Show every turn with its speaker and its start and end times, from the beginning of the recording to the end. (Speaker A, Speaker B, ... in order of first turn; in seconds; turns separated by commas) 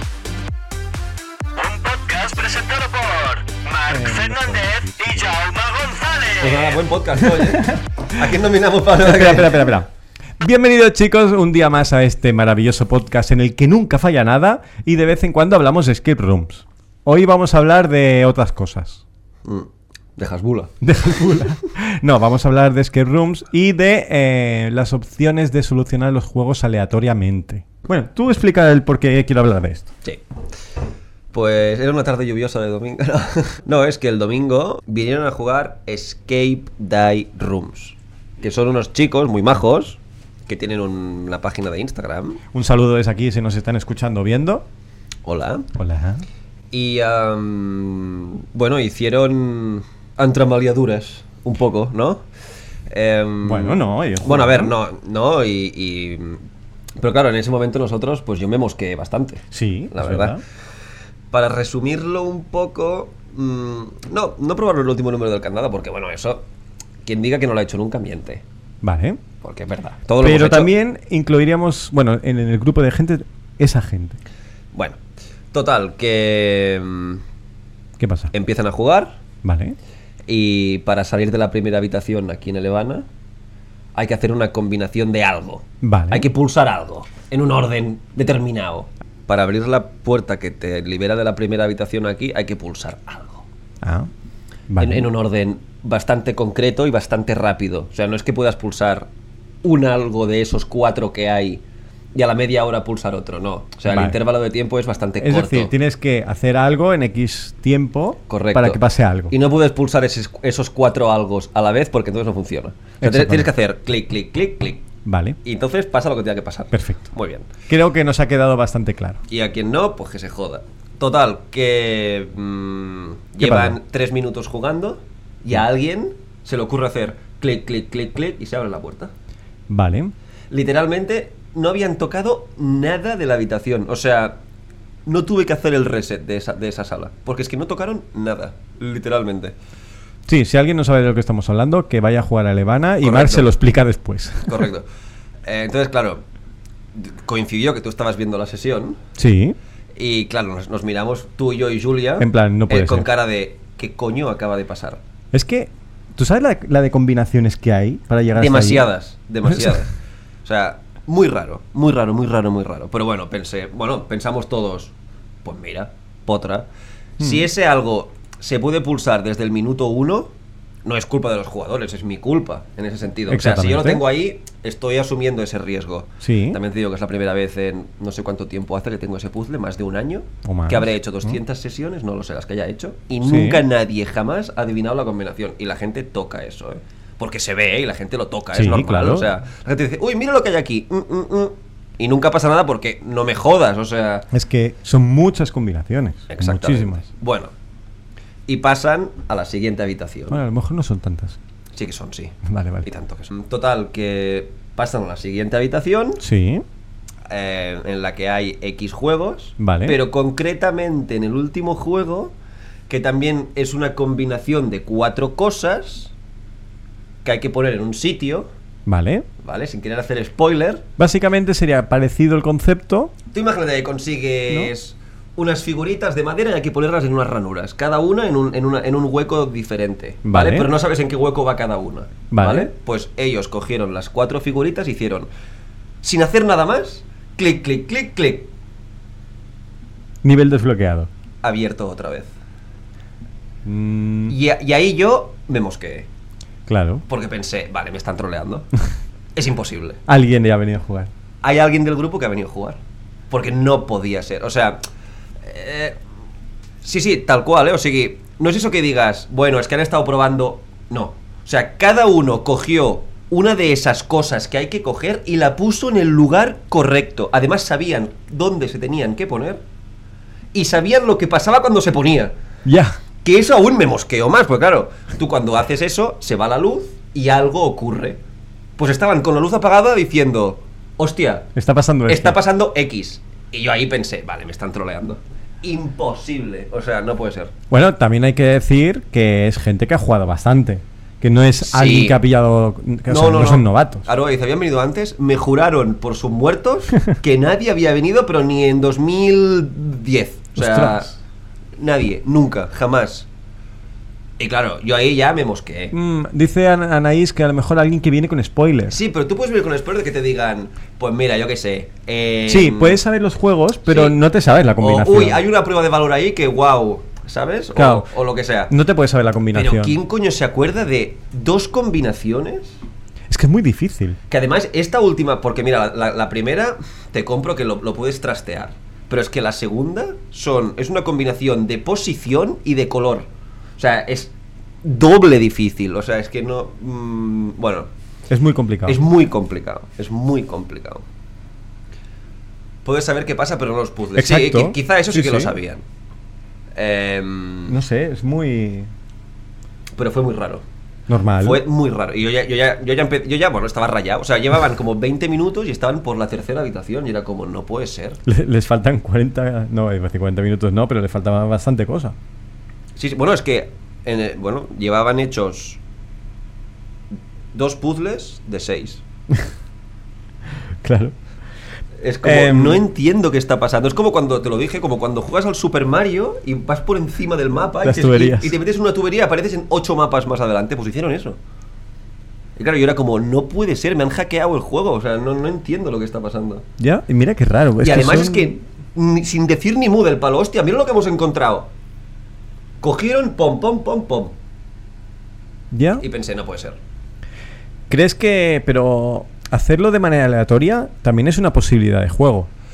Speaker A: 1.6-6.8, Speaker B: 3.9-5.4, Speaker C: 6.4-9.7, Speaker B: 7.2-7.8, Speaker B: 9.0-19.0, Speaker C: 19.4-21.4, Speaker B: 20.8-29.9, Speaker C: 31.3-42.4, Speaker B: 42.5-44.6, Speaker C: 45.2-45.7, Speaker B: 45.7-46.2, Speaker C: 46.7-52.2, Speaker C: 52.9-56.4, Speaker B: 53.4-54.7, Speaker C: 57.0-60.4, Speaker B: 59.5-60.4, Speaker C: 61.3-66.5, Speaker C: 67.0-68.4, Speaker B: 68.8-69.2, Speaker C: 69.4-70.7, Speaker B: 70.2-74.2, Speaker C: 74.7-75.0, Speaker C: 75.5-77.2, Speaker B: 78.0-78.3, Speaker C: 78.3-79.2, Speaker B: 79.4-79.8, Speaker C: 80.3-83.0, Speaker C: 83.9-93.4, Speaker B: 85.8-86.3, Speaker B: 93.8-94.1, Speaker B: 94.7-95.0, Speaker C: 94.8-99.1, Speaker C: 99.6-101.6, Speaker C: 102.1-105.7, Speaker B: 103.9-104.2, Speaker B: 105.2-109.3, Speaker C: 108.3-114.8, Speaker B: 113.0-113.5, Speaker B: 115.0-115.4, Speaker C: 115.4-117.5, Speaker B: 116.7-117.1, Speaker B: 117.7-119.2, Speaker C: 119.3-129.1, Speaker B: 123.4-123.8, Speaker B: 129.7-130.1, Speaker C: 130.5-134.4, Speaker C: 135.1-139.5, Speaker B: 140.3-144.6, Speaker C: 143.0-143.5, Speaker C: 144.4-144.8, Speaker C: 145.4-146.2, Speaker C: 146.9-149.0, Speaker B: 149.2-149.6, Speaker C: 149.9-155.0, Speaker B: 152.2-153.1, Speaker B: 155.3-158.8, Speaker C: 158.3-159.9, Speaker B: 159.5-159.8, Speaker C: 160.4-164.9, Speaker C: 165.4-166.7, Speaker C: 167.2-170.3, Speaker C: 170.8-194.3, Speaker B: 173.3-174.0, Speaker B: 176.2-176.6, Speaker B: 180.4-181.3, Speaker B: 183.2-183.6, Speaker B: 188.5-189.3, Speaker B: 194.3-197.0, Speaker C: 196.3-197.5, Speaker C: 198.5-200.4, Speaker B: 200.3-201.4, Speaker C: 201.7-206.2, Speaker B: 202.4-202.8, Speaker B: 206.2-206.6, Speaker C: 207.3-212.3, Speaker B: 209.6-210.0, Speaker C: 212.9-216.1, Speaker C: 217.2-218.5, Speaker B: 218.8-219.2, Speaker C: 219.4-220.8, Speaker B: 221.0-223.1, Speaker C: 223.3-235.3, Speaker B: 230.2-230.7, Speaker B: 232.3-232.7, Speaker C: 236.0-238.5, Speaker B: 240.2-241.1, Speaker C: 241.4-242.3, Speaker B: 243.6-244.3, Speaker C: 244.3-246.1, Speaker B: 246.7-247.0, Speaker C: 247.1-248.7, Speaker C: 249.3-250.0, Speaker B: 250.1-251.1, Speaker C: 251.4-252.8, Speaker C: 253.3-254.8, Speaker C: 255.4-256.0, Speaker C: 256.8-269.6, Speaker C: 270.5-272.3, Speaker B: 272.6-273.0, Speaker C: 273.2-278.2, Speaker C: 278.8-281.5, Speaker B: 281.5-282.4, Speaker C: 282.1-287.5, Speaker B: 287.7-294.1, Speaker C: 291.6-292.2, Speaker C: 293.1-301.1, Speaker B: 300.6-301.1, Speaker C: 301.8-303.3, Speaker C: 304.4-305.9, Speaker B: 305.9-309.0, Speaker C: 308.9-313.0, Speaker B: 312.5-315.4, Speaker C: 313.9-314.2, Speaker C: 314.8-318.7, Speaker B: 317.7-318.1, Speaker B: 318.7-320.0, Speaker C: 319.5-322.8, Speaker B: 323.3-324.2, Speaker C: 324.3-337.9, Speaker B: 338.3-339.0, Speaker C: 338.9-341.0, Speaker C: 342.8-345.8, Speaker B: 344.1-345.5, Speaker C: 346.7-347.8, Speaker B: 347.7-348.9, Speaker C: 349.9-350.6, Speaker B: 351.1-351.6, Speaker C: 351.4-358.2, Speaker B: 358.2-362.1, Speaker C: 362.9-365.8, Speaker C: 367.5-369.0, Speaker B: 370.8-371.1, Speaker C: 372.0-381.4, Speaker B: 372.2-372.8, Speaker B: 377.8-378.5, Speaker C: 382.6-386.6, Speaker B: 386.8-388.5, Speaker C: 387.8-391.7, Speaker C: 392.8-394.3, Speaker B: 395.7-396.0, Speaker C: 396.0-396.8, Speaker B: 397.9-402.5